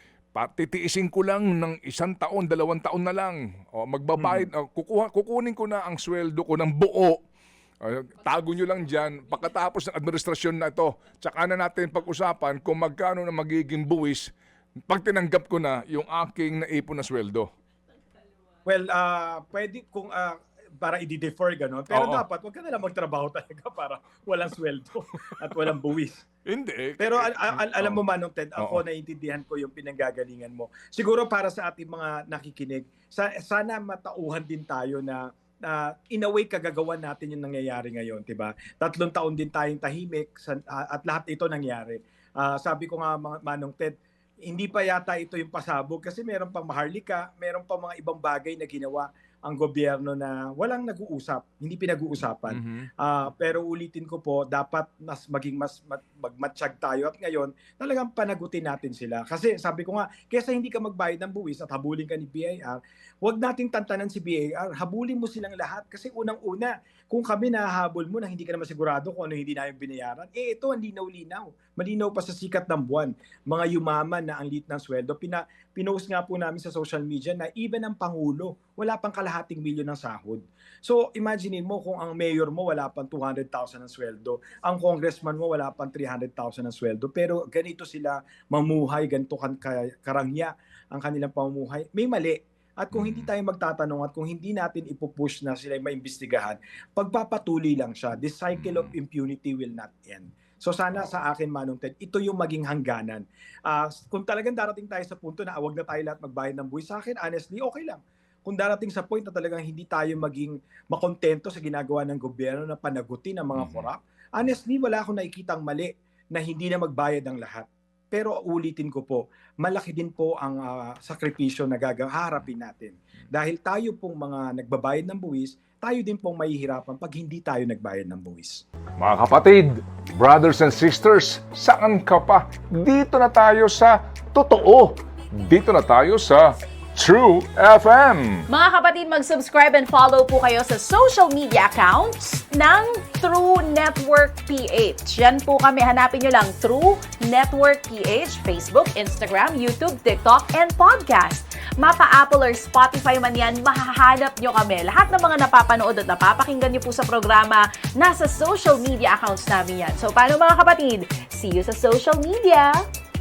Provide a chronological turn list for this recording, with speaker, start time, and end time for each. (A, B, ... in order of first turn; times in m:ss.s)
0:00.3-0:07.2 A
0:04.1-0:04.5 B
0:07.8-0:14.3 A
0:14.9-0:17.5 A
0:18.6-0:26.2 B
0:21.9-0:22.2 A
0:26.4-0:28.0 A
0:27.0-2:08.6 B
0:28.6-0:28.8 A
0:52.5-0:52.9 A
1:32.9-1:33.3 A
1:38.5-1:38.9 A
1:53.5-1:53.9 A
2:09.0-2:18.5 A
2:18.5-2:42.8 C